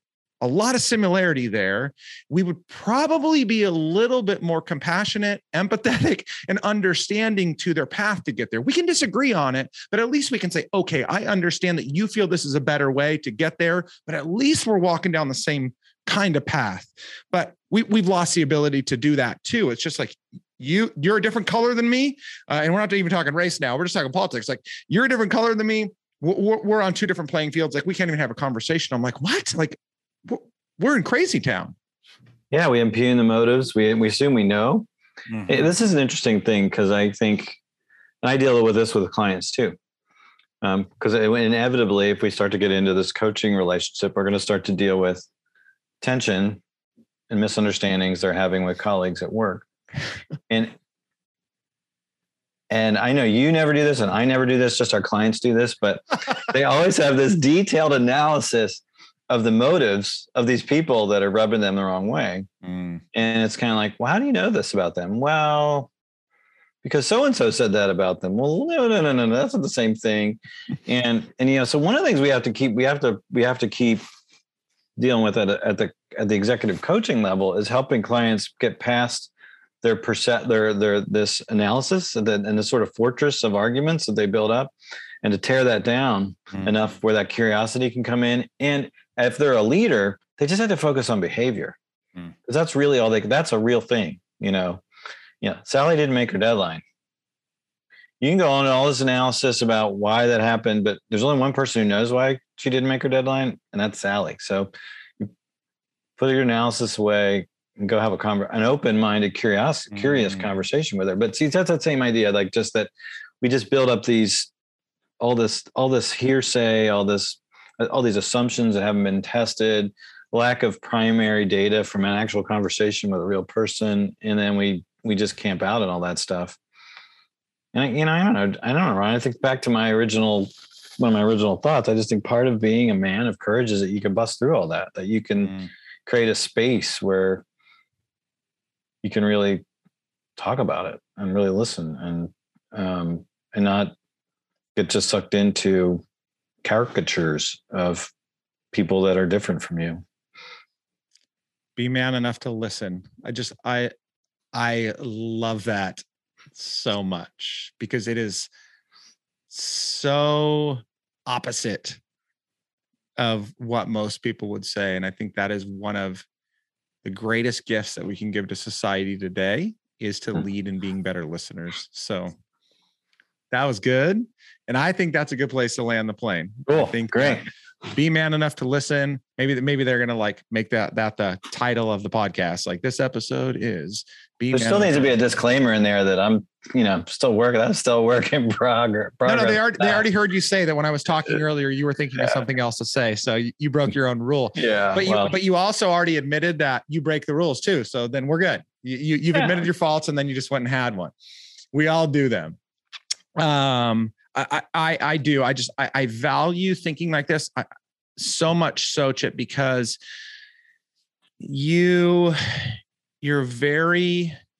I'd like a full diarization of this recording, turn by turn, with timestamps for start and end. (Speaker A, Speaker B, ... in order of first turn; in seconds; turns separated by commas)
Speaker A: 0.4-31.7, Speaker B: 32.5-34.9, Speaker B: 35.5-37.6, Speaker B: 38.2-39.8, Speaker B: 40.6-45.3, Speaker B: 46.0-46.6, Speaker B: 47.3-49.7, Speaker B: 50.5-50.7, Speaker B: 52.7-62.5, Speaker A: 62.6-63.0, Speaker B: 63.1-65.9, Speaker B: 66.8-74.0, Speaker B: 75.0-79.3, Speaker B: 79.8-91.8, Speaker B: 92.5-94.8, Speaker B: 95.4-96.8, Speaker B: 98.2-105.3, Speaker B: 106.2-114.5, Speaker A: 109.9-110.4, Speaker B: 115.2-126.6, Speaker B: 127.7-137.4, Speaker B: 139.0-139.6, Speaker B: 140.4-143.9, Speaker B: 144.7-146.0, Speaker B: 146.6-148.1, Speaker B: 148.7-150.0, Speaker A: 151.8-153.9, Speaker A: 154.5-156.0, Speaker A: 156.5-158.5, Speaker A: 159.5-162.0, Speaker A: 163.2-166.2, Speaker A: 167.0-172.3, Speaker A: 173.5-185.2, Speaker B: 176.7-177.4, Speaker B: 184.5-190.0, Speaker A: 189.2-201.1, Speaker B: 194.5-195.3, Speaker A: 201.7-202.6, Speaker A: 203.3-207.7, Speaker A: 208.2-210.0, Speaker A: 211.4-214.3